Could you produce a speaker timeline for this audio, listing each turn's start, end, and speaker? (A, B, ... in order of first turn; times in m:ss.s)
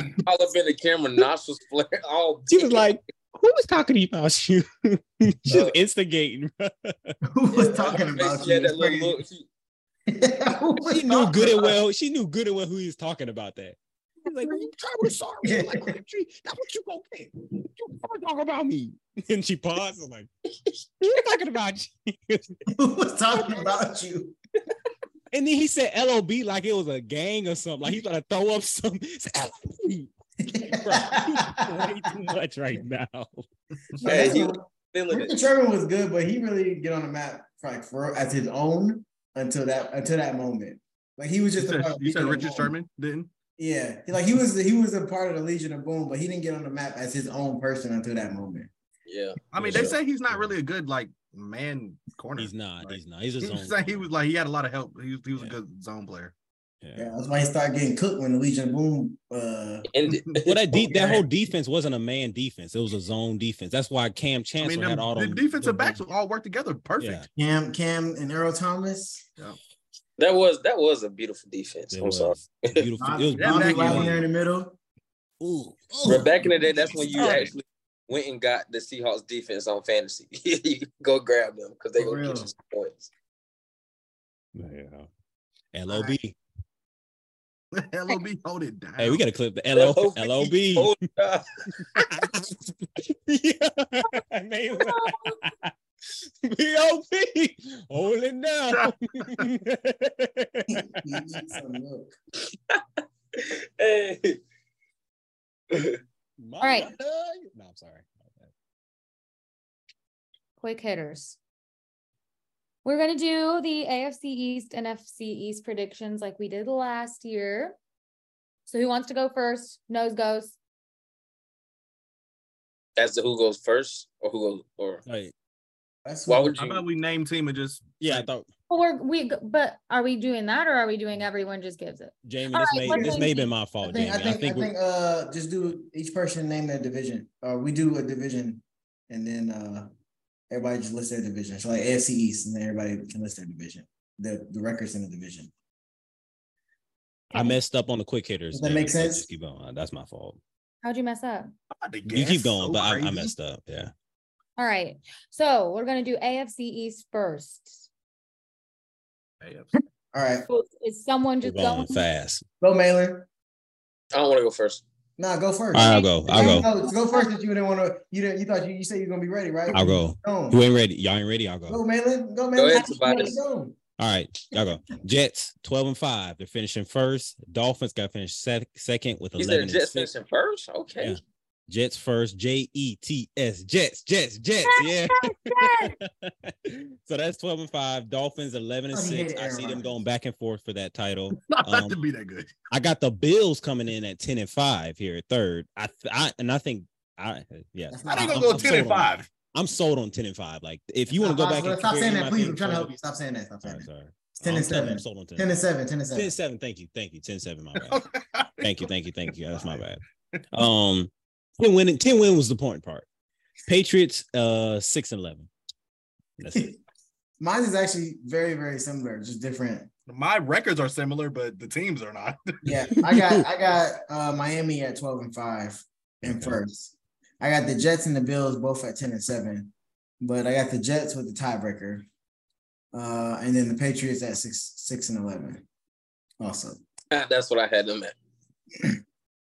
0:00.2-0:02.8 A
0:02.5-0:07.2 B
0:05.5-0:05.8 A
0:07.3-0:09.2 C
0:07.5-0:09.5 A
0:10.1-0:11.8 C
0:10.9-0:22.6 B
0:15.4-0:16.0 C
0:22.7-0:24.4 C
0:23.4-0:23.6 B
0:25.3-0:30.1 B
0:30.4-0:31.8 C
0:30.7-0:33.4 B
0:33.9-0:34.3 D
0:34.0-0:42.7 C
0:34.0-0:35.3 A
0:41.6-0:43.3 D
0:43.6-0:48.7 C
0:49.1-0:50.0 A
0:49.5-0:56.4 D
0:49.6-0:50.6 B
0:52.4-0:54.1 B
0:56.8-0:57.1 B
0:57.0-0:59.9 C
0:59.9-1:00.5 A
1:00.0-1:00.4 D
1:00.4-1:06.0 B
1:00.7-1:01.2 C
1:04.6-1:07.3 D
1:07.0-1:07.3 B
1:07.4-1:09.2 C
1:10.2-1:12.9 A
1:11.9-1:14.2 B
1:13.0-1:14.8 C
1:13.4-1:14.2 D
1:15.4-1:17.5 B
1:16.0-1:23.1 A
1:16.8-1:17.4 D
1:22.0-1:22.5 C
1:24.6-1:25.1 B
1:25.7-1:26.4 B
1:25.9-1:26.2 C
1:27.7-1:29.2 D
1:29.0-1:31.0 B
1:29.7-1:31.9 A
1:31.8-1:35.7 B
1:36.4-1:41.6 B
1:38.7-1:39.5 D
1:40.7-1:42.2 C
1:43.3-1:44.4 A
1:45.7-1:46.0 A
1:46.4-1:48.5 B
1:46.6-1:46.9 E
1:50.6-1:51.4 E
1:52.8-1:57.8 E
1:58.7-2:00.6 E
2:03.0-2:05.0 A
2:05.1-2:05.3 B
2:06.0-2:06.5 C
2:06.3-2:06.8 A
2:06.6-2:08.3 D
2:08.0-2:08.5 B
2:08.7-2:13.5 E
2:12.2-2:14.7 B
2:12.9-2:19.9 C
2:20.5-2:25.5 C
2:27.3-2:30.4 B
2:28.5-2:29.3 C
2:30.8-2:31.5 E
2:31.7-2:33.3 D
2:32.1-2:33.9 B
2:34.6-2:37.8 E
2:39.4-2:39.7 D
2:40.1-2:40.4 C
2:40.5-2:42.1 E
2:41.4-2:42.4 B
2:42.6-2:43.3 C
2:44.1-2:44.8 A
2:45.2-2:50.6 C
2:45.7-2:46.7 B
2:45.8-2:47.3 E
2:49.7-2:51.8 B
2:51.7-2:53.8 C
2:52.6-2:53.4 A
2:54.0-3:00.1 B
2:59.4-3:01.2 A
3:01.0-3:12.0 B
3:04.6-3:05.9 E
3:08.9-3:10.0 C
3:11.3-3:12.7 D
3:12.7-3:22.9 B
3:17.9-3:18.9 C
3:18.1-3:19.3 D
3:21.1-3:23.9 C
3:23.6-3:25.6 B
3:24.4-3:26.3 C
3:26.1-3:28.0 B
3:27.8-3:28.9 D
3:28.6-3:30.0 B
3:29.6-3:29.8 D
3:30.5-3:33.1 B
3:33.7-3:35.5 B
3:36.4-3:36.8 B
3:37.4-3:39.9 C
3:40.1-3:42.7 D
3:42.6-3:52.1 C
3:43.0-3:43.4 B
3:46.2-3:46.6 B
3:52.9-3:55.6 C
3:56.4-3:56.8 C
3:57.1-3:58.1 A